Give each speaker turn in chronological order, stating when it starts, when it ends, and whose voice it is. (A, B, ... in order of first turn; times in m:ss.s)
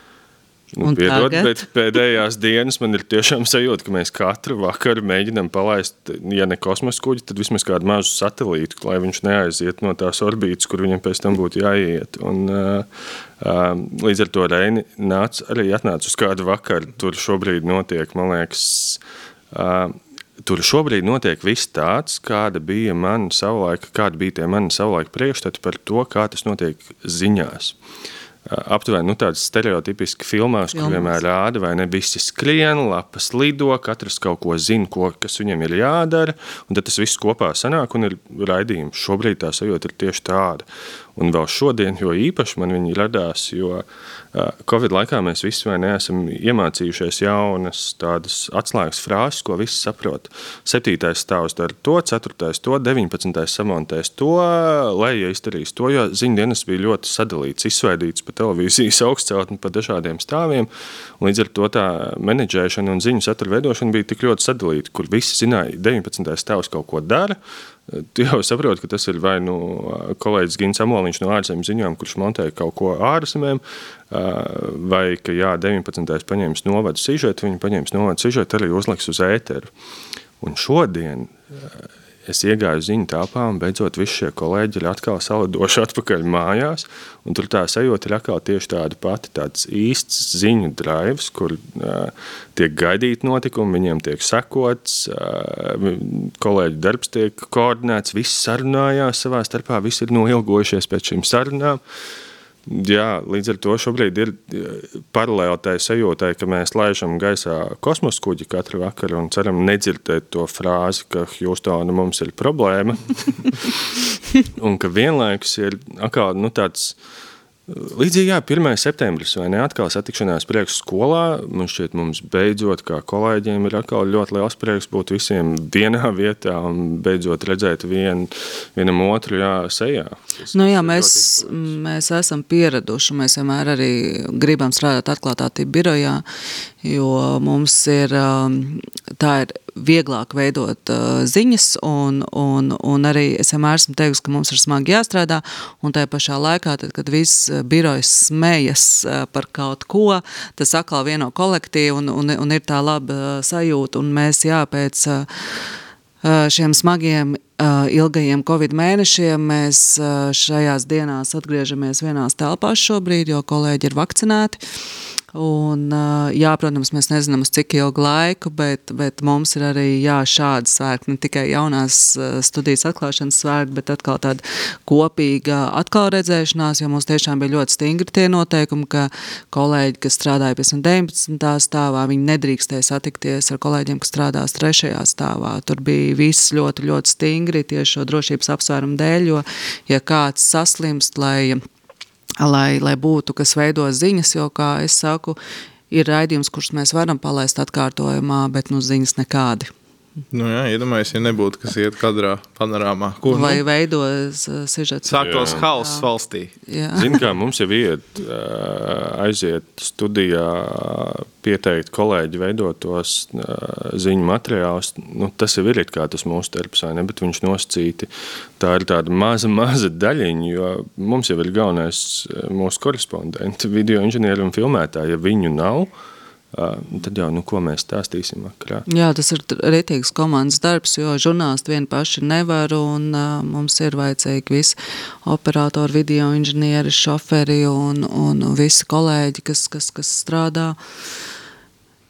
0:00.7-0:19.0 A
0:00.8-0:01.6 B
0:19.5-0:27.8 A
0:28.5-1:19.7 A
0:30.7-0:31.1 B
1:20.4-1:41.8 A
1:42.6-1:53.7 A
1:54.4-1:57.0 A
1:57.7-2:11.7 A
2:10.5-2:16.2 B
2:16.8-2:35.7 B
2:36.2-2:44.6 B
2:45.3-3:11.6 B
3:12.4-3:15.4 B
3:15.9-3:19.7 B
3:20.3-3:23.6 C
3:23.3-3:26.1 B
3:25.1-3:26.5 C
3:25.2-3:25.6 A
3:26.7-3:27.1 B
3:27.0-3:45.9 A
3:46.5-3:48.9 A
3:48.9-4:00.8 B